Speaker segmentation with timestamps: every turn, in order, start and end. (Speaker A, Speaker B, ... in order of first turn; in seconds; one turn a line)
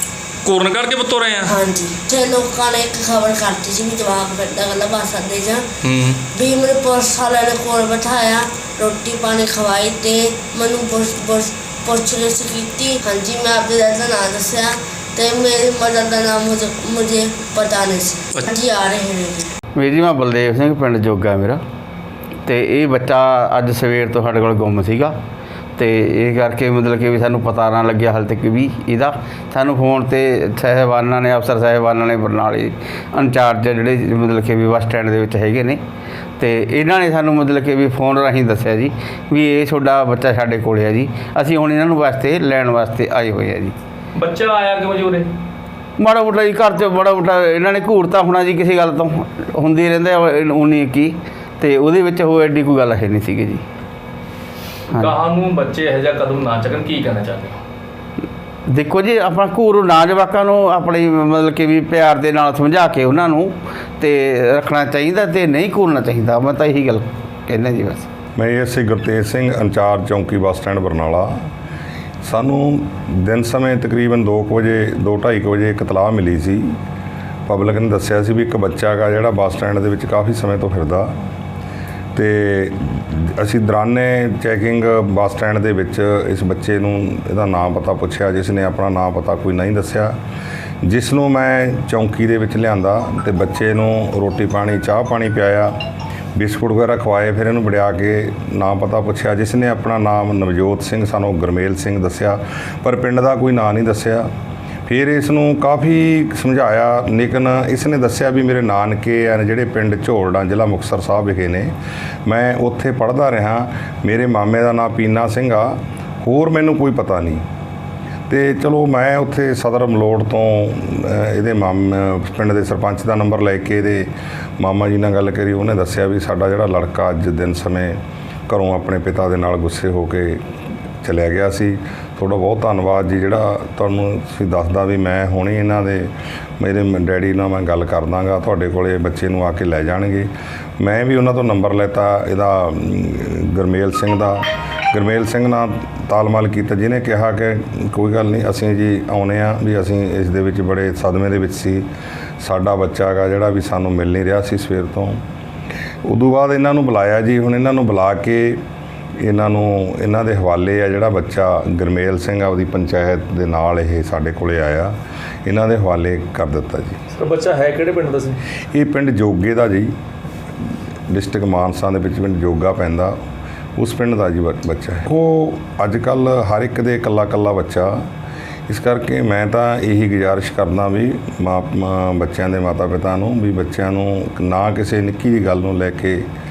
Speaker A: 0.4-1.5
Speaker B: 1.4-5.6
Speaker A: 5.8-6.2
Speaker B: 6.3-19.5
Speaker C: 19.8-21.6
Speaker C: 22.4-25.1
Speaker C: 25.8-35.8
Speaker C: 36.4-43.7
Speaker A: 44.1-45.3
Speaker C: 46.0-53.6
Speaker A: 54.9-57.6
Speaker C: 58.7-68.1
Speaker D: 68.3-71.3
Speaker D: 72.2-76.7
Speaker D: 77.5-81.1
Speaker D: 82.1-90.1
Speaker D: 90.8-95.7
Speaker D: 96.3-104.3
Speaker D: 104.9-111.7
Speaker D: 112.2-117.4
Speaker D: 118.3-124.1
Speaker D: 124.6-128.0
Speaker D: 128.5-130.4
Speaker D: 131.0-136.1
Speaker D: 136.6-144.4
Speaker D: 144.9-151.8
Speaker D: 152.4-155.2
Speaker D: 156.1-158.6
Speaker D: 159.2-164.9
Speaker D: 165.4-167.0
Speaker A: 167.1-168.4
Speaker D: 168.7-169.9
Speaker D: 171.1-173.1
Speaker D: 173.8-178.0
Speaker D: 178.7-186.2